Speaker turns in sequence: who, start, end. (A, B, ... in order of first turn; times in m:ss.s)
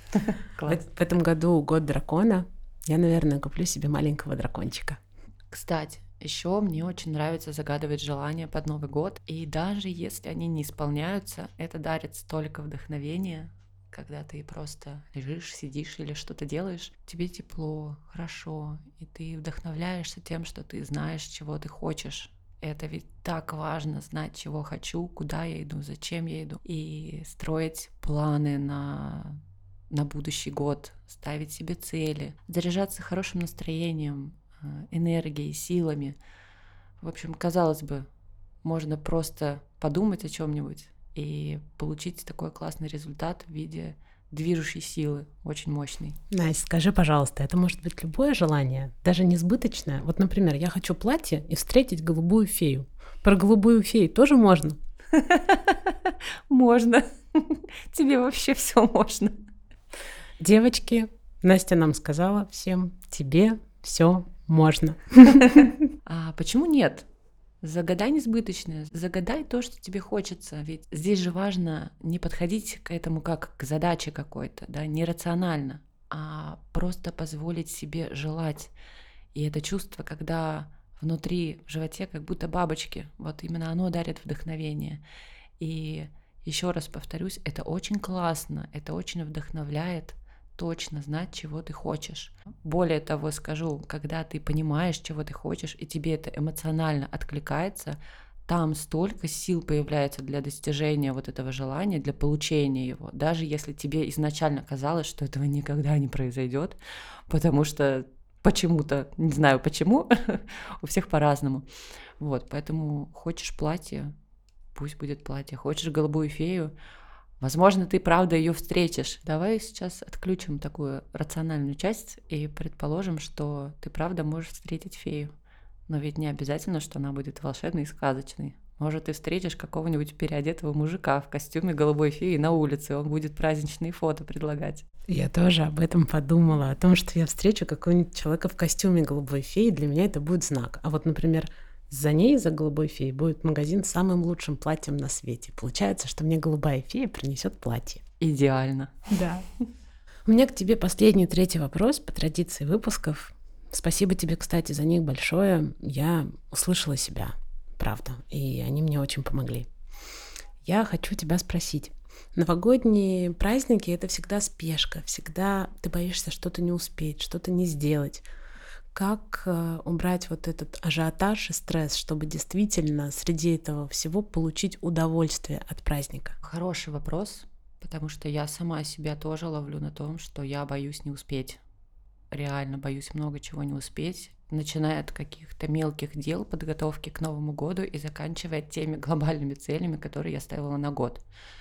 0:00.1-0:00.8 A
0:00.7-0:05.0 B
0:05.5-0:36.2 A
0:37.0-0:38.1 A
0:38.6-0:46.2 A
0:46.3-0:54.8 B
0:55.1-0:59.3 A
1:00.4-1:05.7 B
1:05.4-1:07.1 A
1:07.6-1:18.7 A
1:19.3-1:25.0 A
1:25.6-1:46.8 A
1:47.3-1:51.7 A
1:52.2-1:54.1 A
1:54.7-1:56.7 A
1:57.4-2:05.3 A
2:05.9-2:14.8 A
2:15.1-2:28.0 B
2:28.2-2:29.0 A
2:29.1-2:29.4 B
2:30.3-2:39.7 B
2:40.6-2:48.2 B
2:48.9-2:56.4 B
2:56.4-3:01.6 A
3:02.3-3:11.2 A